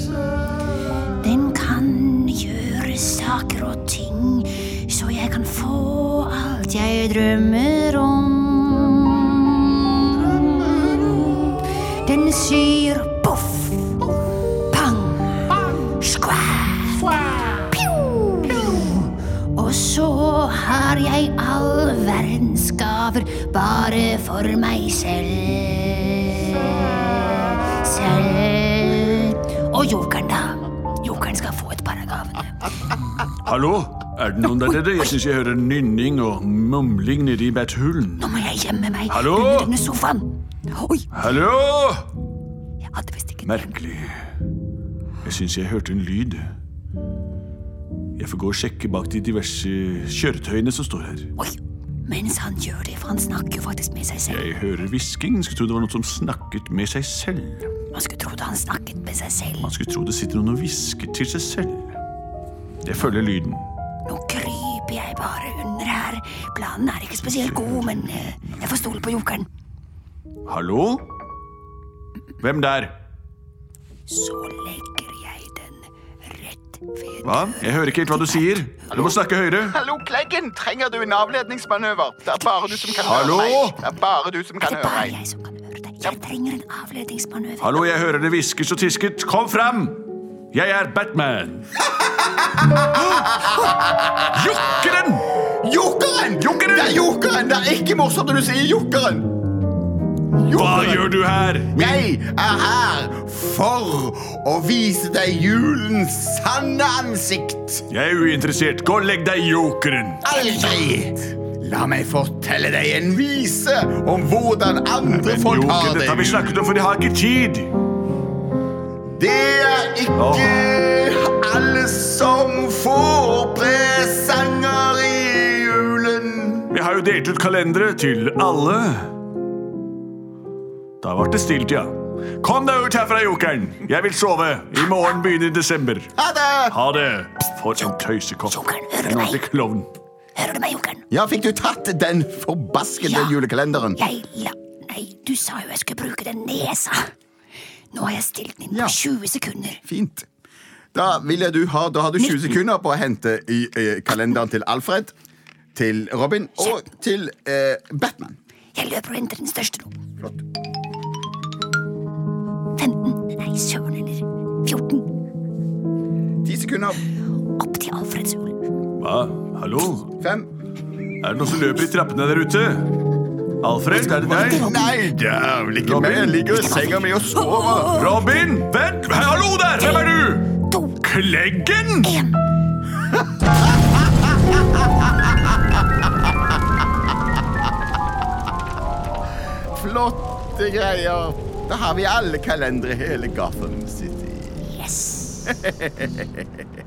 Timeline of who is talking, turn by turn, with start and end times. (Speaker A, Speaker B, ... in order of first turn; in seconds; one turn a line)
Speaker A: 1.2-14.0
Speaker A: 14.7-32.5
Speaker B: 33.4-38.2
Speaker A: 38.2-41.1
Speaker B: 39.1-39.7
Speaker B: 41.1-42.1
Speaker A: 42.9-43.7
Speaker B: 43.4-44.2
Speaker B: 45.2-46.5
Speaker B: 48.2-51.3
Speaker A: 51.4-54.5
Speaker B: 54.3-57.7
Speaker A: 57.9-59.7
Speaker B: 59.6-62.0
Speaker B: 62.8-63.7
Speaker A: 64.1-69.5
Speaker B: 70.5-71.1
Speaker B: 72.4-73.0
Speaker A: 74.1-78.5
Speaker B: 77.2-79.8
Speaker C: 78.9-85.2
Speaker B: 83.0-83.8
Speaker A: 84.6-87.8
Speaker B: 87.6-91.7
Speaker C: 91.8-95.0
Speaker B: 94.3-95.3
Speaker C: 95.5-99.3
Speaker B: 96.4-97.0
Speaker C: 100.3-101.1
Speaker B: 100.5-101.9
Speaker C: 101.7-107.9
Speaker B: 107.9-110.3
Speaker C: 110.2-116.7
Speaker A: 110.4-110.9
Speaker B: 115.0-117.7
Speaker C: 119.2-126.7
Speaker B: 120.2-120.6
Speaker B: 126.7-129.2
Speaker B: 131.0-136.1
Speaker C: 136.2-136.8
Speaker B: 136.7-139.9
Speaker A: 138.5-139.4
Speaker A: 140.4-141.0
Speaker C: 141.1-144.0
Speaker A: 143.0-143.4
Speaker A: 144.0-147.1
Speaker A: 147.9-149.8
Speaker C: 148.7-149.0
Speaker C: 149.8-150.3
Speaker C: 150.9-155.1
Speaker A: 152.3-152.6
Speaker C: 155.7-158.4
Speaker A: 158.8-160.0
Speaker A: 162.8-165.1
Speaker C: 166.4-167.0
Speaker A: 167.6-168.6
Speaker B: 169.0-170.1
Speaker C: 170.2-170.5
Speaker B: 171.2-172.9
Speaker B: 173.6-174.7
Speaker C: 174.0-177.9
Speaker A: 174.1-175.0
Speaker B: 175.8-176.5
Speaker A: 176.5-178.5
Speaker B: 177.9-180.5
Speaker A: 179.8-181.0
Speaker B: 181.0-182.1
Speaker A: 182.0-182.4
Speaker C: 183.1-184.9
Speaker C: 189.7-194.7
Speaker A: 194.7-195.6
Speaker C: 195.5-196.7